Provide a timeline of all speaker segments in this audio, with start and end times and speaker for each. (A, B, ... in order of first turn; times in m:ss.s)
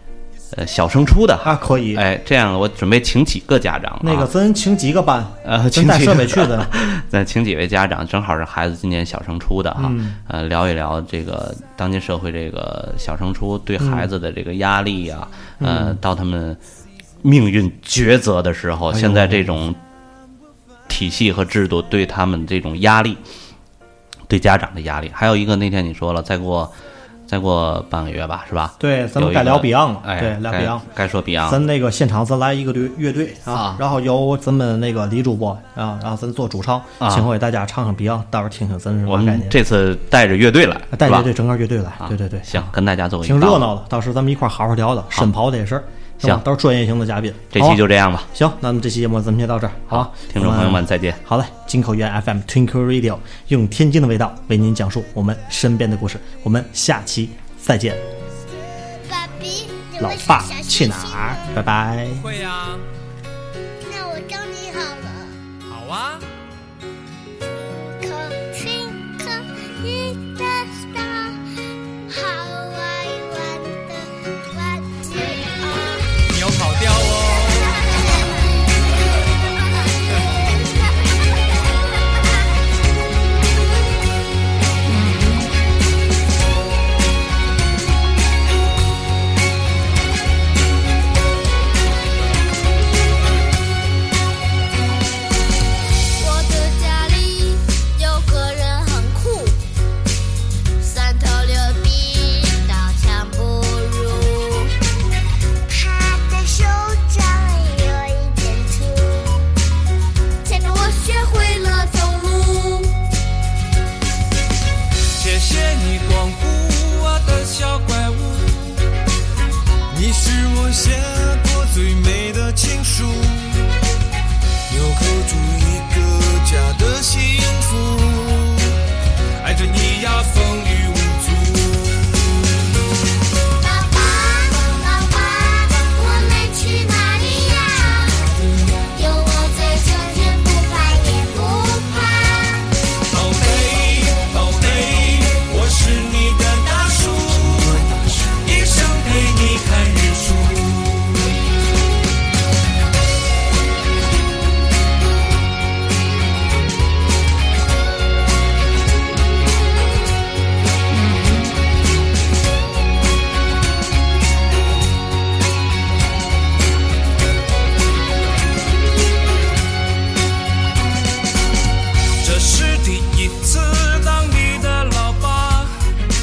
0:00.5-0:04.3 A
0:01.4-0:02.0 B
0:04.0-0:06.7 B
0:05.4-0:16.6 A
0:09.8-0:10.2 B
0:13.8-0:14.0 B
0:15.6-0:16.0 B
0:17.2-0:19.8 A
0:18.9-0:19.6 B
0:20.9-0:23.2 A
0:24.3-0:26.7 A
0:27.3-0:31.6 A
0:28.8-0:30.8 B
0:31.4-0:39.6 B
0:33.5-0:33.8 A
0:37.0-0:37.3 A
0:39.1-0:41.3 A
0:40.9-0:58.0 B
0:42.0-0:43.7 A
0:47.5-0:48.3 A
0:49.9-0:51.2 A
0:58.9-1:01.6 C
1:00.0-1:02.3 B
1:02.3-1:02.8 D
1:02.4-1:02.8 E
1:03.8-1:05.4 C
1:05.7-1:06.1 D
1:05.7-1:06.2 E
1:07.5-1:11.5 C
1:12.0-1:16.1 C
1:16.3-1:17.4 D
1:16.8-1:17.3 E
1:17.3-1:18.6 C
1:20.1-1:20.6 C
1:36.2-1:39.6 C
1:40.8-1:44.7 C
1:45.7-1:49.5 C
1:50.4-1:53.0 C
1:55.1-1:58.9 E
1:59.9-2:03.7 E
2:04.7-2:08.8 E
2:09.4-2:12.2 E
2:13.5-2:18.3 C
2:18.9-2:22.7 C
2:23.0-2:31.4 E
2:52.2-2:55.8 E